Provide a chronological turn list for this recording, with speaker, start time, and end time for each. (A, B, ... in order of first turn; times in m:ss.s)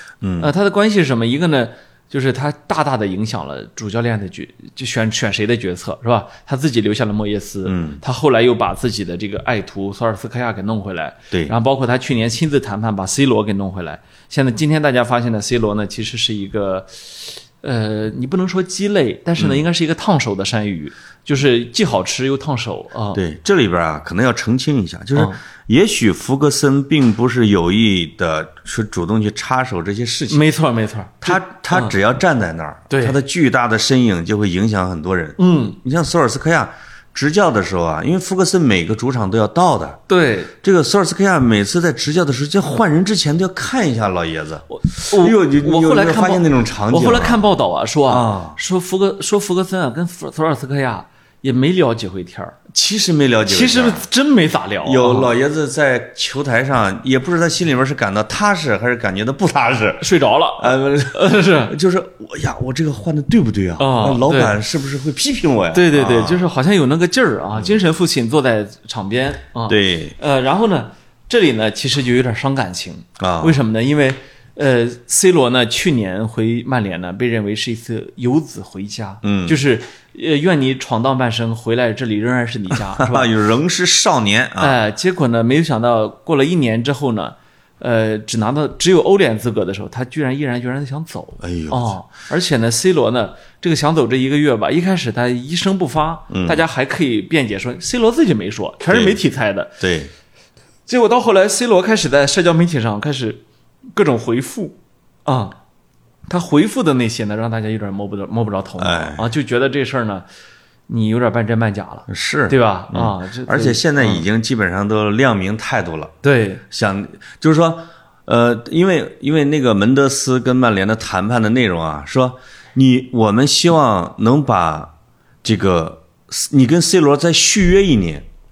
0:00.2-0:00.5 A
0:00.4-0:23.2 B
0:07.6-0:08.0 A
0:19.4-0:19.6 A
0:23.1-0:30.4 A
0:30.3-0:31.9 B
0:31.2-0:40.0 A
0:32.9-0:33.2 B
0:35.4-0:35.8 B
0:40.1-0:40.5 B
0:40.6-0:47.4 A
0:44.7-0:52.6 B
0:48.1-0:48.6 A
0:52.7-0:54.0 A
0:53.5-0:55.3 B
0:54.8-1:00.1 A
1:00.0-1:01.7 B
1:00.6-1:06.5 A
1:03.8-1:04.5 B
1:05.7-1:23.3 B
1:07.6-1:07.8 A
1:09.7-1:10.1 A
1:13.2-1:13.6 A
1:19.2-1:19.6 A
1:23.0-1:24.8 A
1:24.6-1:39.8 B
1:31.4-1:31.9 A
1:36.3-1:36.6 A
1:38.9-1:39.2 A
1:39.8-1:40.1 A
1:40.9-1:43.4 B
1:43.9-1:45.5 B
1:46.3-1:50.2 B
1:48.8-1:49.3 A
1:50.9-1:54.2 B
1:52.1-1:56.1 A
1:56.2-1:56.6 B
1:56.7-2:04.9 A
2:05.4-2:08.2 A